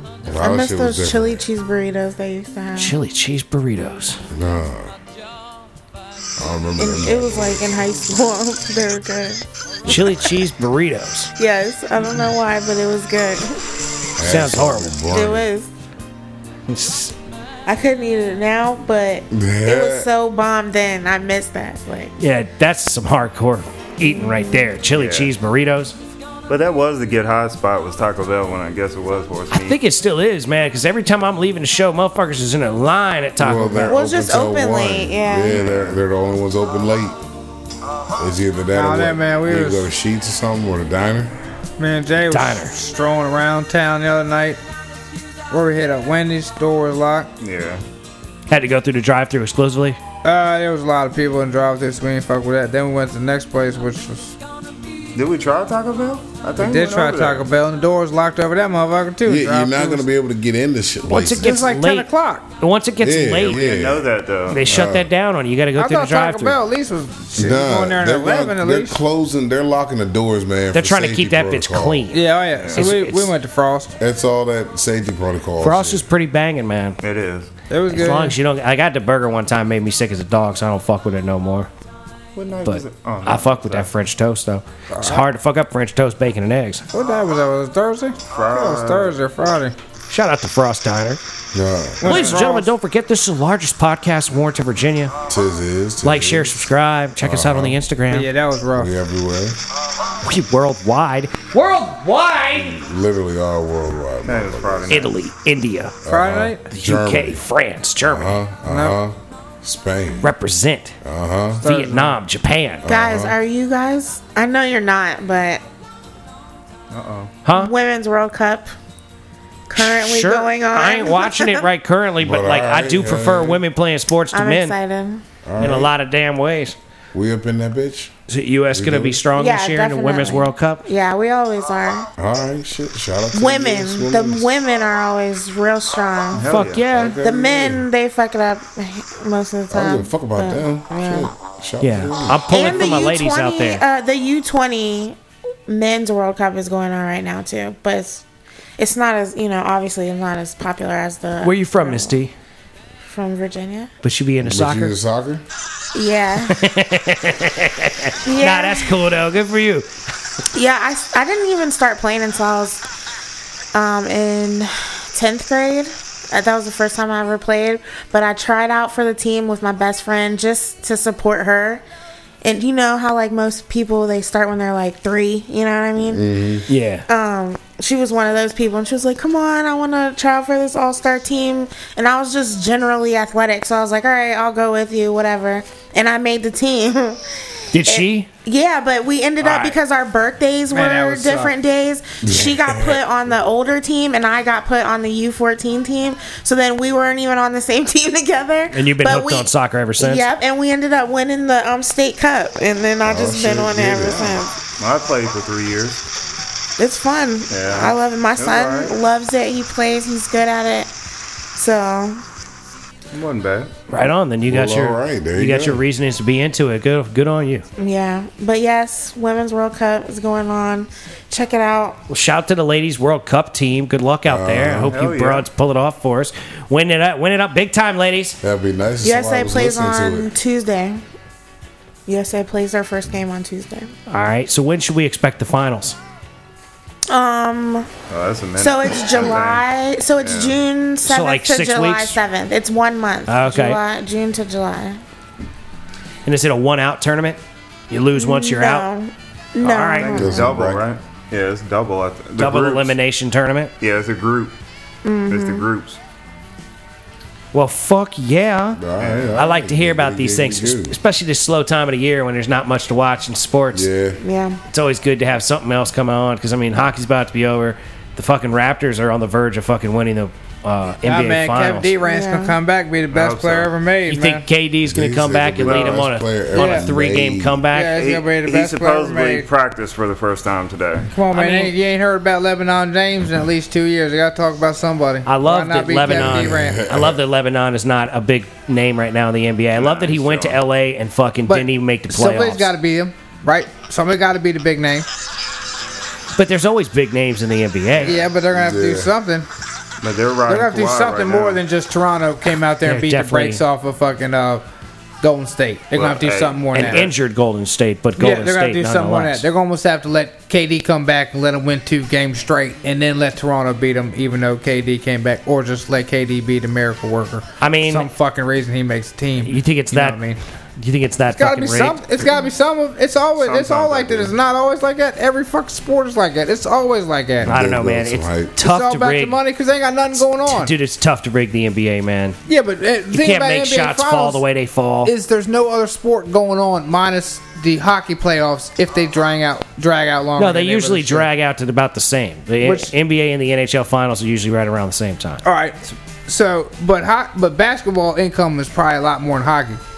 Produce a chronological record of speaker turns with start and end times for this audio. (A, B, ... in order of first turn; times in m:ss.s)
0:00.2-0:01.4 A
0:00.4-0:03.0 B
0:02.8-0:04.2 C
0:04.3-0:04.9 A
0:06.4-0:07.7 A
0:06.8-0:09.4 B
0:09.9-0:10.2 A
0:09.9-0:11.3 C
0:11.4-0:13.7 B
0:14.2-0:15.5 A
0:14.2-0:14.9 C
0:15.0-0:15.7 B
0:16.7-0:17.1 C
0:17.7-0:22.2 B
0:19.3-0:20.1 A
0:22.2-0:26.0 C
0:24.1-0:24.7 B
0:24.9-0:25.3 D
0:26.5-0:29.8 D
0:29.5-0:34.0 C
0:33.4-0:37.2 A
0:33.9-0:35.6 B
0:35.5-0:36.0 D
0:38.2-0:41.3 A
0:38.7-0:39.9 E
0:41.8-0:44.6 E
0:42.3-0:42.7 C
0:45.5-0:47.3 E
0:47.4-0:47.8 D
0:48.5-0:50.0 C
0:50.2-0:54.4 E
0:55.2-0:57.5 D
0:56.6-1:00.1 E
0:59.2-1:01.6 A
1:01.1-1:03.6 C
1:01.4-1:02.5 E
1:03.0-1:04.1 A
1:03.4-1:04.7 D
1:04.5-1:06.6 C
1:04.6-1:05.1 A
1:05.8-1:09.0 E
1:07.4-1:12.1 A
1:10.7-1:13.3 C
1:12.1-1:14.0 E
1:12.6-1:12.9 D
1:14.0-1:16.0 A
1:15.6-1:17.0 C
1:17.0-1:17.5 D
1:17.7-1:18.4 E
1:17.9-1:21.7 C
1:22.4-1:23.9 D
1:22.6-1:26.8 C
1:24.9-1:25.2 E
1:26.9-1:29.8 E
1:28.3-1:29.2 D
1:30.1-1:31.2 C
1:31.5-1:32.1 A
1:32.0-1:32.7 E
1:32.0-1:35.1 C
1:32.1-1:32.4 D
1:35.3-1:37.8 A
1:36.0-1:38.3 C
1:38.1-1:38.9 E
1:38.8-1:39.6 A
1:40.2-1:42.8 C
1:42.6-1:45.0 A
1:44.2-1:45.2 D
1:44.9-1:46.0 C
1:46.0-1:47.4 A
1:46.1-1:46.6 E
1:46.7-1:48.4 C
1:48.1-1:50.3 A
1:48.7-1:49.0 E
1:50.2-1:51.0 C
1:51.0-1:51.6 A
1:51.6-1:52.2 E
1:51.6-1:52.8 C
1:52.8-1:53.4 A
1:52.9-1:55.6 B
1:56.9-1:57.3 D
1:57.4-1:57.7 C
1:57.5-1:58.7 B
1:59.7-2:01.7 B
1:59.8-2:04.7 C
2:02.2-2:03.6 A
2:04.3-2:05.2 B
2:05.4-2:05.9 A
2:05.6-2:06.8 C
2:07.1-2:08.1 A
2:08.3-2:10.8 C
2:08.7-2:09.2 A
2:09.4-2:12.1 B
2:12.2-2:14.5 A
2:13.3-2:16.5 B
2:16.3-2:17.7 D
2:16.4-2:17.2 C
2:17.2-2:21.3 B
2:19.7-2:22.4 A
2:21.8-2:23.8 C
2:22.5-2:28.2 B
2:28.8-2:32.2 B
2:31.4-2:32.3 C
2:33.1-2:33.9 B
2:34.0-2:35.0 C
2:34.4-2:35.4 A
2:35.9-2:36.6 B
2:36.5-2:39.9 C
2:38.2-2:39.0 B
2:40.5-2:42.9 B
2:43.7-2:51.8 B
2:52.4-2:56.2 B
2:56.1-2:56.7 A
2:56.7-2:57.1 C
2:57.1-3:07.2 B
3:07.7-3:08.3 C
3:07.8-3:24.6 B
3:09.4-3:09.7 C
3:10.7-3:11.5 E
3:12.2-3:13.0 A
3:18.7-3:20.3 C
3:23.0-3:24.4 A
3:24.8-3:26.0 D
3:26.8-3:30.9 B
3:27.5-3:29.0 D
3:31.5-3:32.2 B
3:33.1-3:33.7 D
3:33.9-3:37.6 C
3:34.5-3:35.8 A
3:37.8-3:42.0 B
3:42.1-3:48.4 C
3:44.3-3:45.0 A
3:44.8-3:45.5 D
3:48.4-3:50.3 A
3:49.0-3:51.0 B
3:52.1-3:53.9 B
3:54.1-3:56.0 C
3:57.1-3:57.9 B
3:58.1-3:59.6 D
3:58.6-4:05.0 B
4:00.2-4:00.6 D
4:01.0-4:02.2 C
4:03.3-4:03.8 C
4:06.2-4:08.9 C
4:08.2-4:10.5 B
4:09.6-4:10.4 C
4:10.0-4:13.0 D
4:10.2-4:10.8 A
4:12.4-4:13.7 C
4:13.8-4:14.5 D
4:15.0-4:15.6 B
4:15.3-4:16.0 D
4:17.5-4:18.8 C
4:18.8-4:21.0 A
4:19.0-4:19.4 D
4:19.3-4:23.9 C
4:23.7-4:24.2 A
4:24.2-4:24.6 B
4:24.7-4:31.9 C
4:31.0-4:34.4 E
4:32.0-4:32.6 B
4:33.1-4:33.7 D
4:34.1-4:38.0 C
4:34.8-4:37.6 A
4:35.6-4:36.0 D
4:36.5-4:36.9 E
4:37.7-4:39.5 E
4:37.9-4:41.1 D
4:41.1-4:46.8 E
4:41.3-4:41.7 C
4:45.3-4:52.7 C
4:46.1-4:47.2 A
4:49.7-4:50.6 D
4:51.5-4:55.1 E
4:56.3-4:58.3 C
4:58.0-4:59.5 E
4:58.5-4:59.1 A
5:00.0-5:01.6 D
5:00.5-5:04.6 E
5:02.8-5:03.6 C
5:05.2-5:07.1 E
5:05.9-5:07.1 D
5:06.7-5:09.5 C
5:08.2-5:20.4 E
5:17.6-5:18.1 C
5:19.4-5:20.2 C
5:20.8-5:22.0 C
5:21.3-5:27.6 E
5:23.4-5:24.3 D
5:27.4-5:28.6 A
5:27.5-5:29.4 C
5:28.6-5:30.7 E
5:30.2-5:32.4 C
5:32.5-5:34.4 E
5:33.1-5:35.1 C
5:35.0-5:41.3 E
5:40.4-5:45.4 C
5:42.6-5:42.9 E
5:45.4-5:49.8 E